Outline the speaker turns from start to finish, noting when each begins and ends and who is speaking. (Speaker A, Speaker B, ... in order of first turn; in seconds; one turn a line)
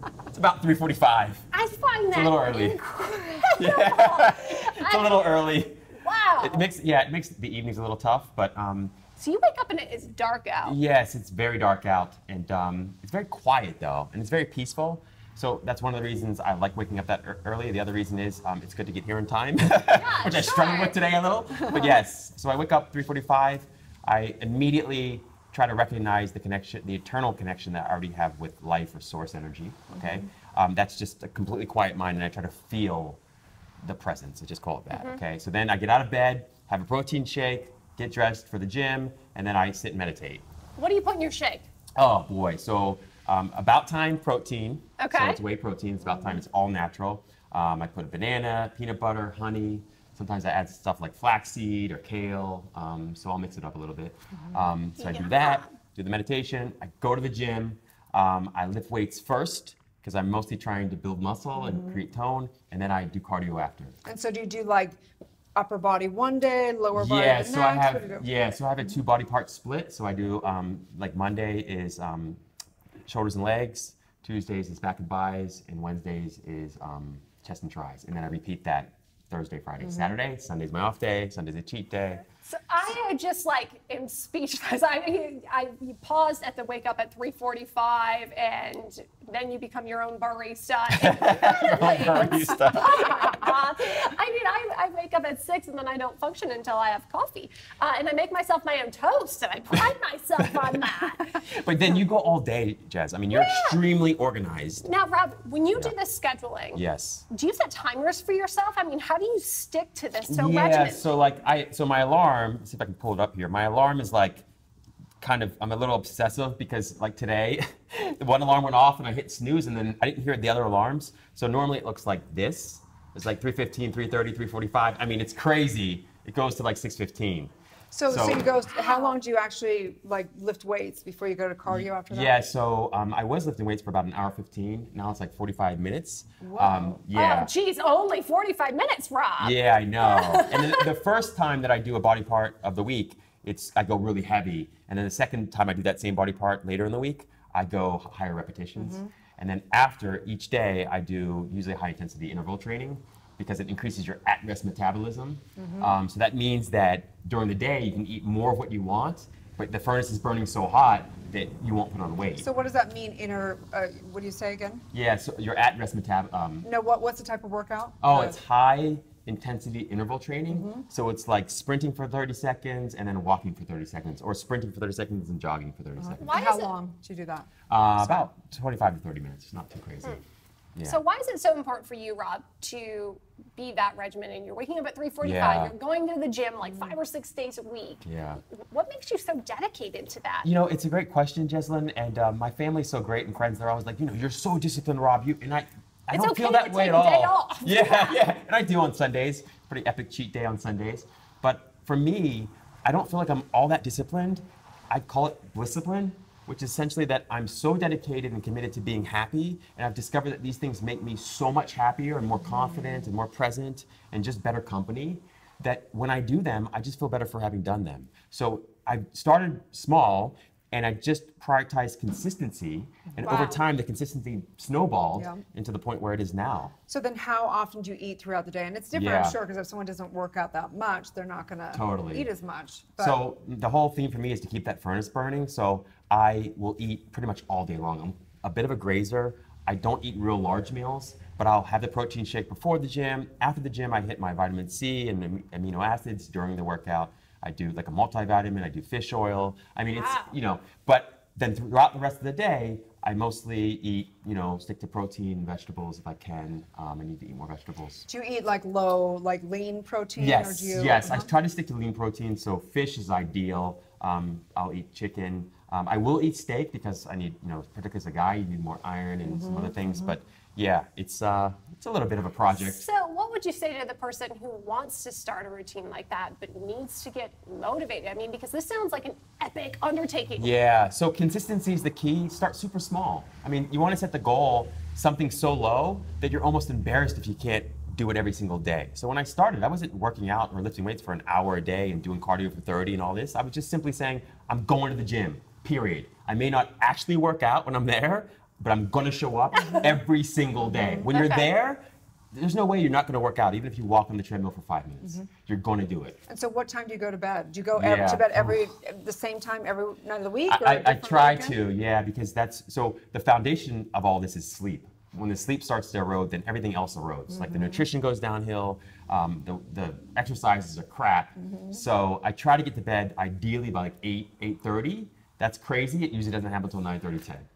Speaker A: 0.3-1.5
Speaker B: 1.5-5.3
Speaker A: 2.1-2.8
Speaker A: 3.5-5.8
Speaker B: 6.0-6.7
Speaker A: 6.4-9.0
Speaker B: 9.2-10.8
Speaker A: 10.6-33.2
Speaker B: 20.0-21.0
Speaker C: 29.9-30.2
Speaker A: 33.8-40.4
Speaker B: 34.9-35.2
Speaker B: 40.8-41.7
Speaker A: 42.0-64.0
Speaker B: 45.0-45.4
Speaker C: 46.0-46.3
Speaker B: 55.0-55.7
Speaker C: 61.5-62.0
Speaker C: 64.0-65.0
Speaker C: 65.5-68.2
Speaker A: 66.9-72.4
Speaker A: 73.0-82.2
Speaker C: 79.8-80.1
Speaker B: 82.4-101.4
Speaker A: 90.9-93.5
Speaker A: 101.5-104.8
Speaker B: 103.3-103.8
Speaker B: 104.8-111.1
Speaker A: 106.7-107.2
Speaker A: 110.3-114.5
Speaker A: 115.2-127.5
Speaker C: 127.9-132.3
Speaker A: 128.1-128.5
Speaker B: 128.8-129.1
Speaker A: 131.7-137.5
Speaker C: 136.4-137.0
Speaker B: 137.1-140.9
Speaker A: 139.4-162.5
Speaker C: 148.8-149.1
Speaker C: 155.6-155.9
Speaker C: 162.4-164.8
Speaker A: 164.9-166.7
Speaker C: 166.6-168.4
Speaker A: 168.0-176.4
Speaker C: 170.5-170.8
Speaker C: 176.0-178.3
Speaker B: 176.2-176.7
Speaker A: 177.7-180.2
Speaker A: 180.7-181.0
Speaker B: 180.8-190.5
Speaker A: 185.2-185.7
Speaker A: 188.0-188.4
Speaker A: 190.4-226.7
Speaker B: 196.1-198.2
Speaker C: 223.2-223.5
Speaker C: 225.1-225.4
Speaker C: 226.9-233.2
Speaker A: 228.9-229.4
Speaker A: 231.7-232.3
Speaker A: 233.0-258.1
Speaker B: 249.9-250.3
Speaker C: 258.1-261.3
Speaker A: 260.2-272.9
Speaker C: 269.2-270.1
Speaker B: 272.5-280.5
Speaker A: 280.4-306.2
Speaker C: 299.6-300.0
Speaker C: 300.6-301.1
Speaker B: 301.1-301.5
Speaker C: 305.0-305.3
Speaker C: 306.3-311.6
Speaker A: 307.7-308.6
Speaker A: 310.5-327.5
Speaker C: 317.3-317.8
Speaker C: 321.4-321.8